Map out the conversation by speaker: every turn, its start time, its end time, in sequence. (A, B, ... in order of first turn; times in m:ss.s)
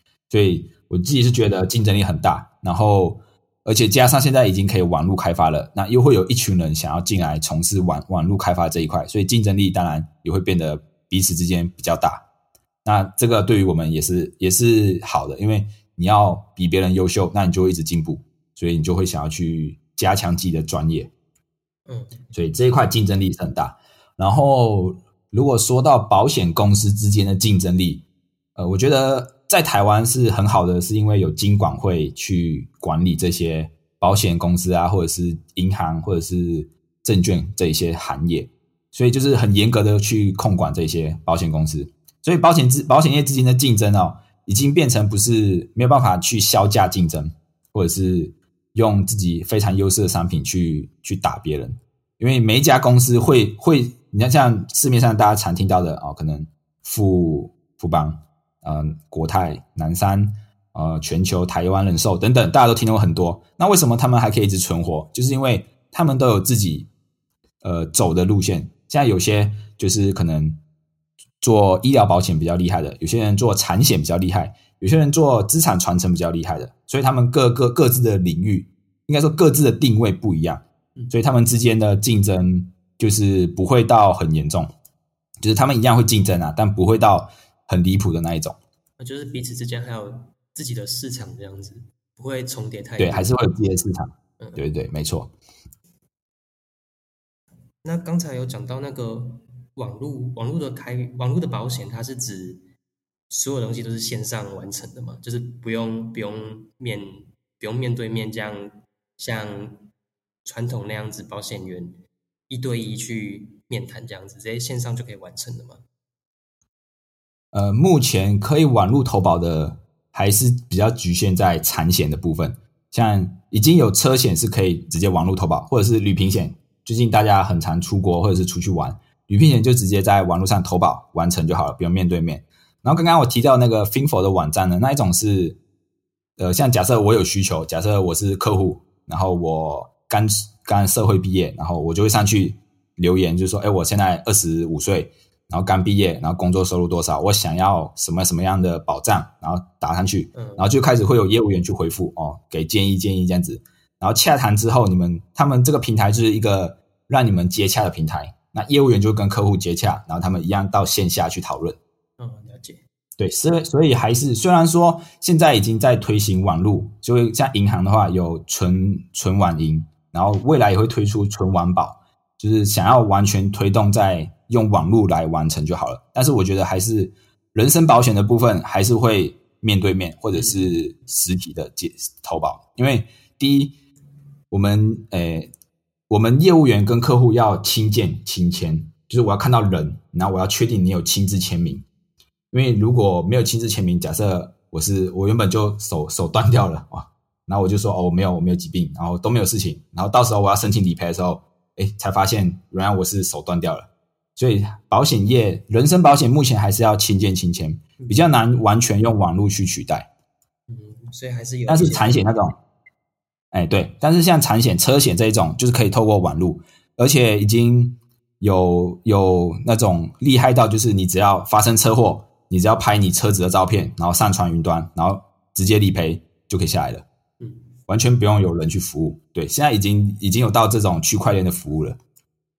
0:00.3-0:12.2 A
0:12.8-0:21.1 A
0:21.9-0:22.2 B
0:22.3-0:28.0 A
0:28.6-1:06.9 A
1:07.6-1:10.6 A
1:11.4-1:24.7 A
1:25.4-1:28.6 A
1:29.0-1:33.3 B
1:33.0-1:35.3 A
1:37.8-1:42.7 B
1:43.3-1:49.9 B
1:50.4-1:55.8 B
1:57.5-2:15.6 A
2:16.4-2:41.8 A
2:30.4-2:30.7 B
2:42.2-2:42.8 B
2:43.2-3:03.8 A
3:00.4-3:00.6 B
3:04.5-3:05.5 A
3:06.1-3:11.8 A
3:12.5-3:30.1 A
3:30.7-3:32.3 B
3:31.7-3:32.6 A
3:33.5-3:47.0 A
3:47.4-3:47.8 B
3:47.9-3:52.0 A